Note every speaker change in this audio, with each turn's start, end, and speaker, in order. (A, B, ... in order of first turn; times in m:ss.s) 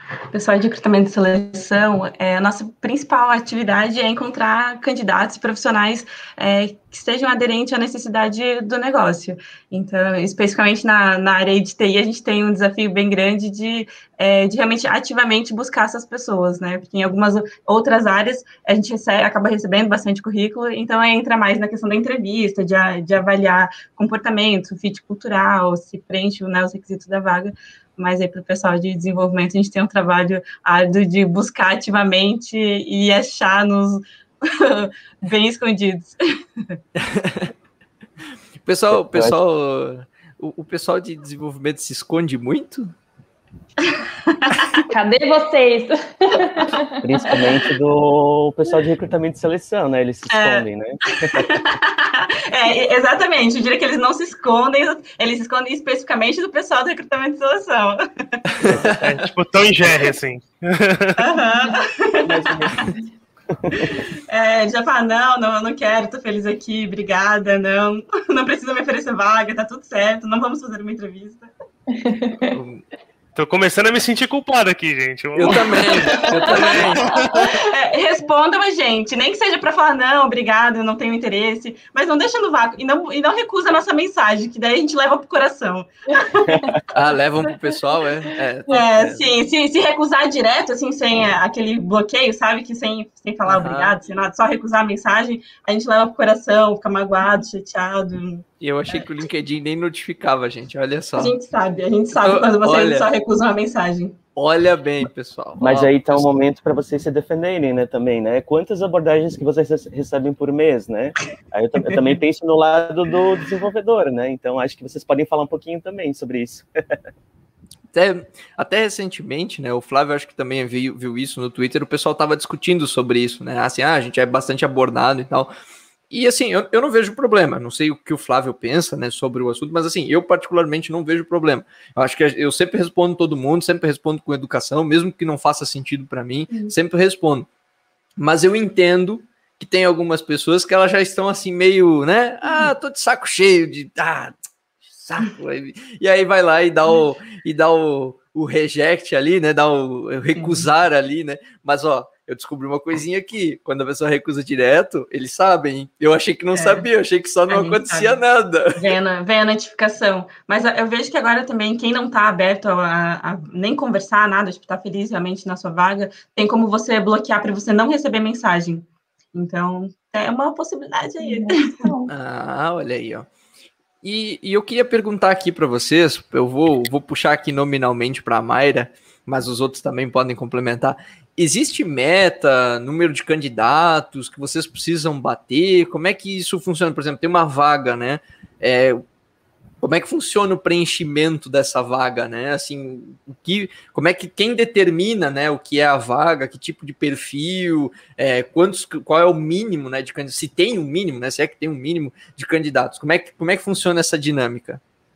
0:00.3-0:36.8 A
0:37.0-0:37.5 B
0:38.6-0:42.9 B
0:38.9-0:39.4 C
0:43.8-0:44.8 A
0:44.9-0:47.4 D
0:47.0-0:51.6 C
0:50.3-0:58.6 A
0:58.5-0:59.2 B
0:58.8-1:01.2 E
1:01.2-1:02.9 A
1:02.2-1:02.9 C
1:03.5-1:04.0 C
1:03.9-1:11.5 A
1:11.9-1:12.6 D
1:12.4-1:12.8 B
1:13.4-1:17.5 E
1:15.3-1:17.1 B
1:16.5-1:26.7 A
1:26.5-1:26.7 C
1:26.9-1:29.2 B
1:28.7-1:39.0 A
1:33.4-1:34.0 B
1:38.6-1:41.3 B
1:41.2-1:44.2 A
1:42.2-1:43.1 B
1:44.4-1:46.3 B
1:45.6-1:57.0 C
1:57.9-2:05.5 B
2:06.1-2:17.5 B
2:18.2-2:24.4 B
2:24.9-2:38.9 B
2:30.3-2:30.7 A
2:36.5-2:36.8 A
2:37.5-2:38.2 A
2:38.7-2:51.9 A
2:51.2-2:52.1 D
2:52.1-2:53.3 B
2:54.0-3:09.0 B
3:09.8-3:24.8 B